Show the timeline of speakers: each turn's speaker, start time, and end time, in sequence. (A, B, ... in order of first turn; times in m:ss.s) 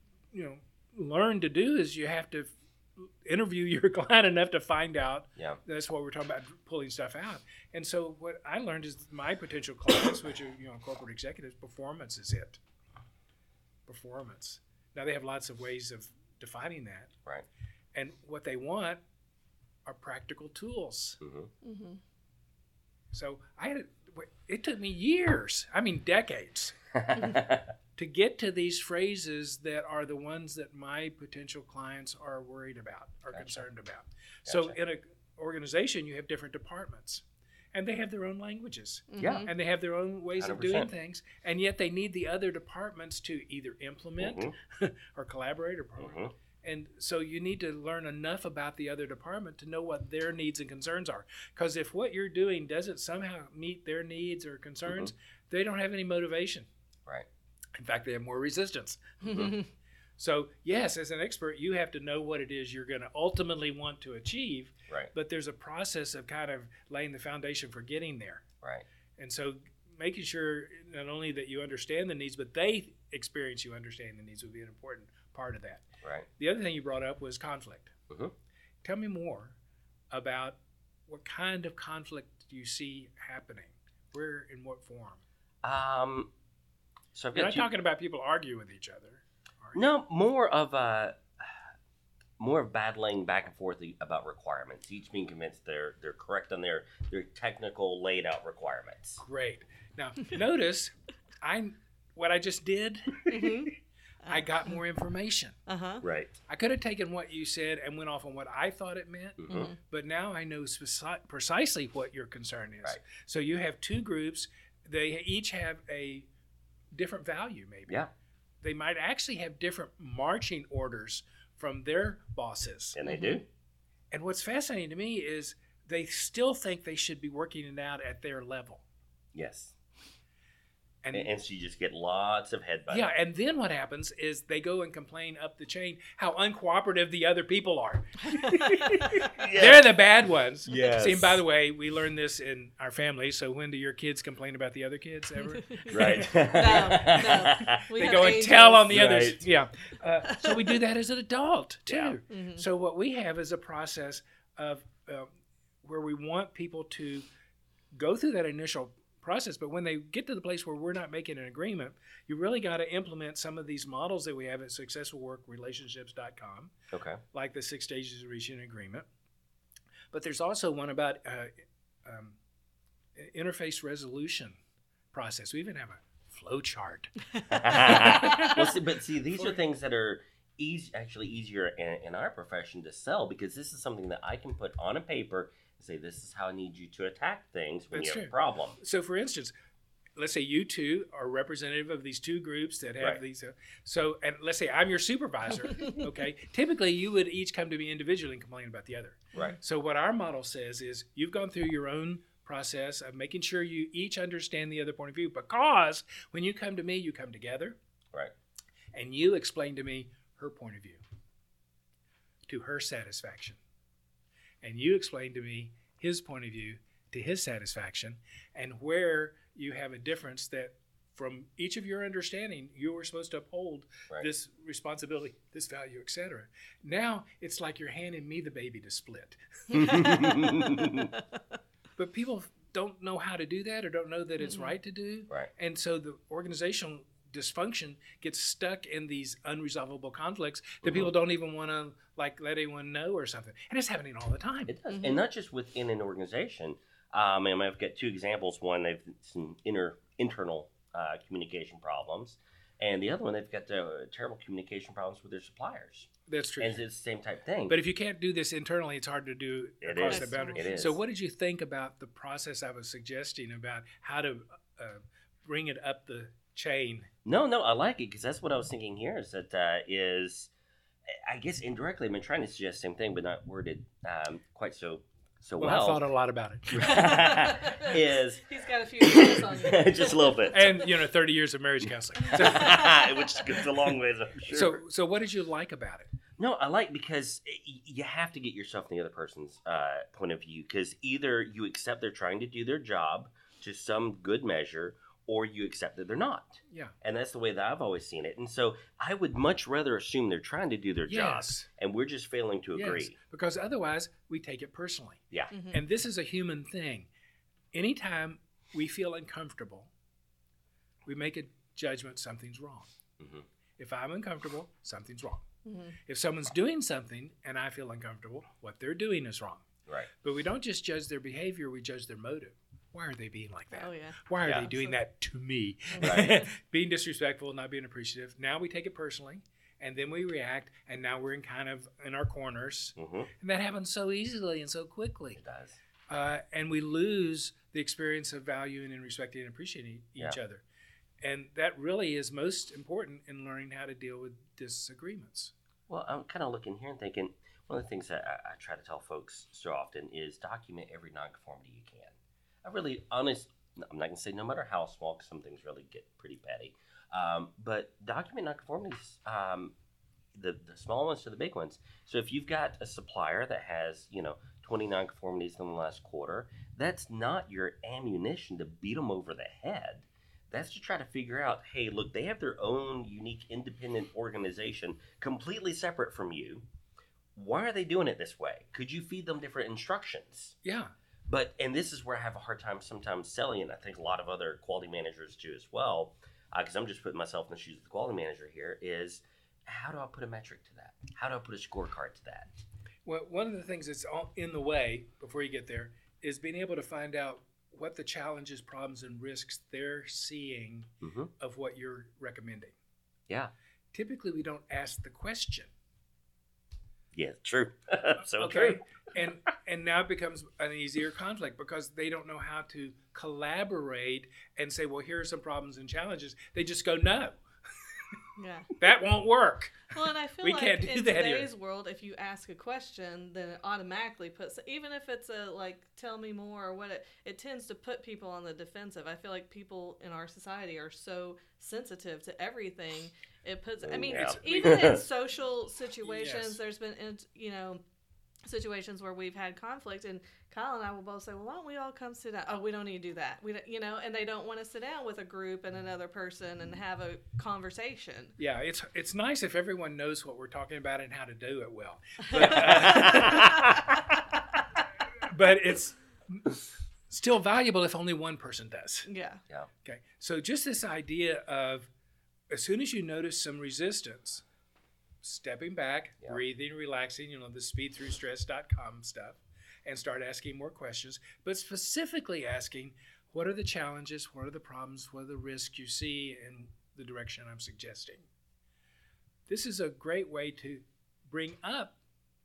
0:00.3-0:12.6 A
0:05.4-0:05.6 B
0:13.9-0:17.1 A
0:17.9-0:19.0 A
0:19.8-0:21.2 A
0:21.2-0:21.5 B
0:21.6-0:22.0 C
0:23.1-0:26.7 A
0:27.0-0:27.7 B
0:27.1-0:27.4 C
0:28.0-0:37.2 A
0:33.3-0:33.6 B
0:34.4-0:34.8 B
0:37.7-0:56.7 A
0:39.1-0:39.5 C
0:39.2-0:39.5 B
0:40.4-0:40.9 B
0:44.2-0:44.5 B
0:46.0-0:46.3 B
0:54.9-0:55.1 B
0:57.8-0:59.5 A
0:59.2-0:59.6 B
0:59.3-0:59.6 C
1:00.2-1:08.4 A
1:09.2-1:15.8 A
1:16.0-1:16.3 B
1:16.4-1:17.9 A
1:18.8-1:19.6 A
1:20.1-1:25.2 A
1:25.6-1:26.3 B
1:27.1-1:27.7 B
1:27.3-1:29.8 A
1:29.7-1:31.5 B
1:32.4-1:39.2 B
1:39.2-1:43.7 A
1:43.3-1:43.7 C
1:44.2-1:44.8 C
1:44.3-1:45.6 A
1:45.7-1:46.0 C
1:46.0-1:46.3 B
1:46.5-1:56.3 A
1:49.4-1:49.7 B
1:49.5-1:49.8 C
1:56.9-1:58.0 A
1:58.6-2:03.0 A
2:02.9-2:03.4 B
2:03.0-2:03.4 C
2:04.1-2:08.8 A
2:09.3-2:09.8 B
2:11.0-2:11.3 A
2:11.1-2:13.1 B
2:12.9-2:35.3 A
2:18.3-2:19.2 C
2:19.2-2:19.9 B
2:20.6-2:21.4 B
2:25.4-2:29.0 C
2:25.9-2:29.4 B
2:30.2-2:30.8 C
2:31.9-2:32.2 B
2:32.3-2:32.6 C
2:35.8-2:37.3 A
2:37.9-2:46.7 A
2:46.9-2:47.2 B
2:47.3-2:49.0 A
2:50.1-2:51.5 A
2:52.0-2:52.4 A
2:53.2-2:54.6 A
2:55.1-2:57.1 A
2:57.5-3:08.8 B
2:57.7-2:58.7 A
2:57.9-2:58.5 C
3:07.9-3:09.5 A
3:10.2-3:27.8 A
3:28.9-3:31.0 A
3:32.5-3:33.6 A
3:34.6-3:50.4 A
3:49.7-3:51.1 B
3:49.8-3:50.3 C
3:52.0-4:04.7 A
3:54.4-3:54.7 C
4:00.8-4:01.1 B
4:04.7-4:16.1 B
4:04.9-4:05.2 C
4:16.3-4:16.8 A
4:16.6-4:17.8 B
4:17.7-4:27.1 A
4:19.8-4:21.0 B
4:20.0-4:20.9 C
4:27.2-4:30.5 B
4:31.2-4:36.0 B
4:35.6-4:37.2 A
4:36.7-4:38.4 B
4:36.8-4:40.8 C
4:39.0-4:40.7 B
4:40.5-4:43.0 A
4:42.3-4:44.8 B
4:42.3-4:42.8 C
4:44.5-4:46.1 A
4:46.4-5:03.2 B
5:01.1-5:01.7 A
5:02.7-5:05.2 A
5:05.5-5:05.8 C
5:05.7-5:07.1 A
5:07.7-5:09.9 A
5:11.0-5:12.9 A
5:13.2-5:13.4 B
5:13.8-5:15.4 A
5:15.6-5:16.0 C
5:16.0-5:19.6 A
5:19.9-5:20.1 B
5:20.2-5:35.4 A
5:23.7-5:25.0 C
5:25.9-5:26.5 C
5:26.0-5:26.3 B
5:33.0-5:33.3 B
5:35.4-5:35.8 B
5:36.1-5:40.6 A
5:41.2-5:45.5 A
5:45.9-5:59.7 B
6:00.3-6:16.6 B
6:17.3-6:20.6 B
6:20.6-6:20.9 A
6:21.2-6:32.5 B
6:33.0-6:42.7 A
6:41.0-6:41.3 B
6:43.9-6:45.7 A
6:47.1-6:48.8 B
6:48.2-6:57.4 A
6:58.4-6:58.8 C
6:58.8-7:01.5 A
6:59.9-7:17.8 C
7:13.8-7:15.0 B
7:16.0-7:16.6 A
7:18.4-7:28.3 C
7:28.4-7:33.9 A
7:32.3-7:32.9 C
7:33.0-7:33.7 B
7:35.2-7:39.1 A
7:39.1-7:39.4 C
7:39.8-7:41.9 A
7:42.5-7:44.4 A
7:45.2-7:58.2 A
7:59.5-8:02.0 A